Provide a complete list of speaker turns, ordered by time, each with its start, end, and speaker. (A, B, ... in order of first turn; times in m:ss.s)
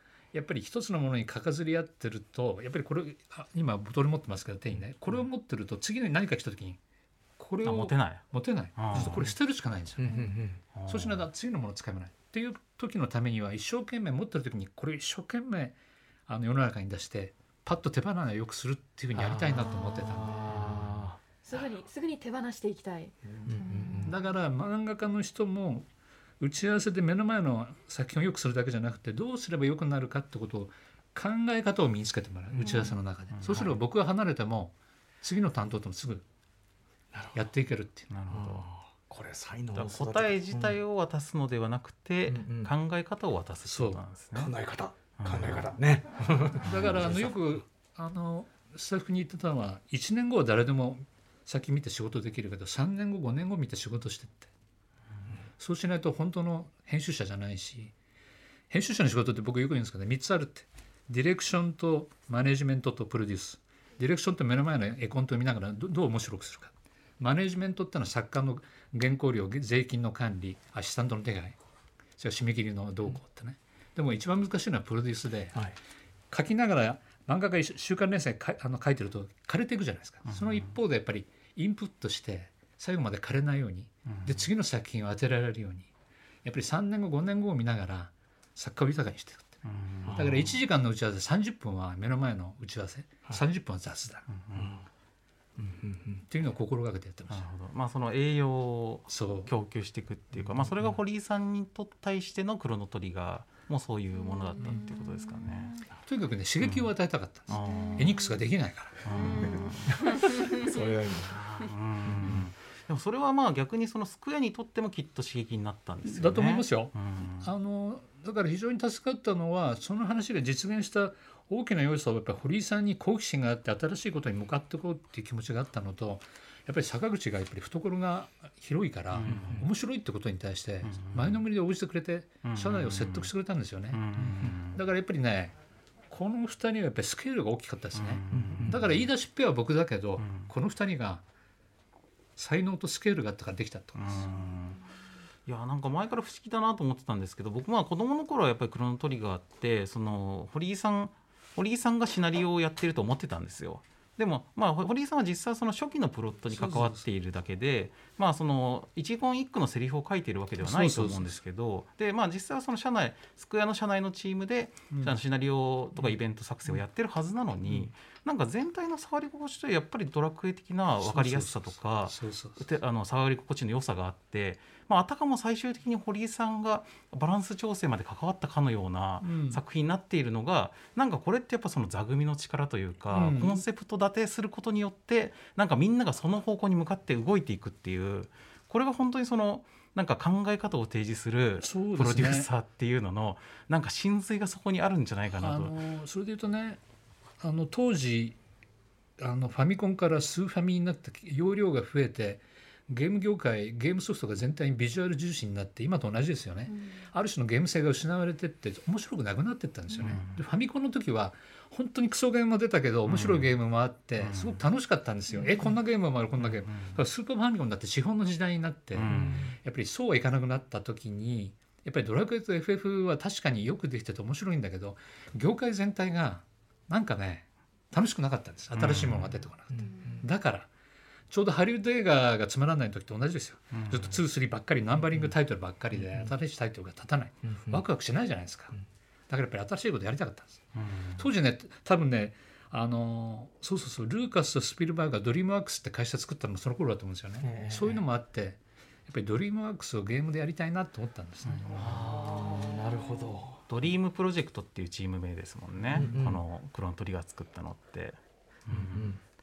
0:00.3-0:06.8 A
0:07.4-0:15.8 A
0:07.6-0:08.2 B
0:08.8-0:09.2 B
0:08.9-0:09.2 C
0:10.0-0:10.6 C
0:10.7-0:11.2 B
0:16.3-0:20.8 A
0:19.1-0:21.2 C
0:19.5-0:20.6 D
0:20.6-0:21.0 B
0:21.4-0:24.2 D
0:23.4-0:24.1 C
0:24.0-0:25.9 A
0:26.4-0:36.2 A
0:32.5-0:32.9 C
0:32.6-0:32.9 D
0:33.4-0:33.7 B
0:37.1-0:37.5 C
0:37.3-0:38.1 A
0:38.1-0:38.7 B
0:38.3-0:40.8 C
0:39.7-0:44.5 B
0:42.3-0:42.7 C
0:43.6-0:44.0 A
0:44.3-0:47.3 C
0:45.2-0:45.7 B
0:46.6-0:54.5 A
0:55.6-0:57.9 A
0:58.7-1:11.6 A
1:12.2-1:15.6 A
1:16.3-1:25.9 A
1:20.3-1:20.6 B
1:24.0-1:24.4 B
1:26.4-1:34.3 A
1:29.6-1:30.5 B
1:30.0-1:30.5 C
1:34.3-1:34.7 B
1:34.5-1:34.8 C
1:35.6-1:36.2 C
1:36.3-1:37.5 A
1:37.3-1:45.7 B
1:39.1-1:39.5 A
1:40.3-1:40.7 C
1:44.2-1:45.8 D
1:46.0-1:49.0 A
1:47.5-1:48.2 B
1:47.5-1:48.3 D
1:49.0-1:50.1 B
1:49.1-1:50.8 D
1:49.9-1:51.4 C
1:51.2-1:57.5 B
1:52.0-1:52.4 C
1:56.0-2:15.5 A
2:09.1-2:09.6 B
2:09.2-2:09.6 C
2:10.8-2:11.4 B
2:12.4-2:13.3 B
2:13.9-2:14.8 B
2:16.1-2:21.2 A
2:18.0-2:19.0 B
2:18.3-2:18.8 C
2:20.2-2:20.5 B
2:22.4-2:24.3 A
2:24.0-2:24.8 B
2:25.5-3:15.7 B
2:36.5-2:37.0 A
2:40.6-2:41.4 A
2:44.9-2:45.2 A
2:51.0-2:52.6 A
2:59.2-2:59.6 A
3:03.1-3:03.6 A
3:11.6-3:12.5 A
3:15.4-3:16.8 A
3:17.4-3:18.4 A
3:19.2-3:50.7 A
3:26.7-3:27.0 D
3:30.0-3:30.4 B
3:33.0-3:33.5 B
3:34.2-3:34.6 B
3:36.4-3:37.0 B
3:38.9-3:39.4 B
3:39.1-3:39.6 C
3:48.7-3:49.4 B
3:49.7-3:50.2 C
3:51.3-3:58.7 A
3:53.7-3:54.2 B
3:57.5-3:57.8 C
3:59.3-4:00.6 A
4:00.7-4:01.2 B
4:01.2-4:12.0 A
4:07.4-4:08.0 C
4:11.7-4:12.1 B
4:11.7-4:13.6 C
4:12.1-4:13.3 D
4:13.7-4:19.2 B
4:15.9-4:16.4 C
4:18.7-4:19.2 C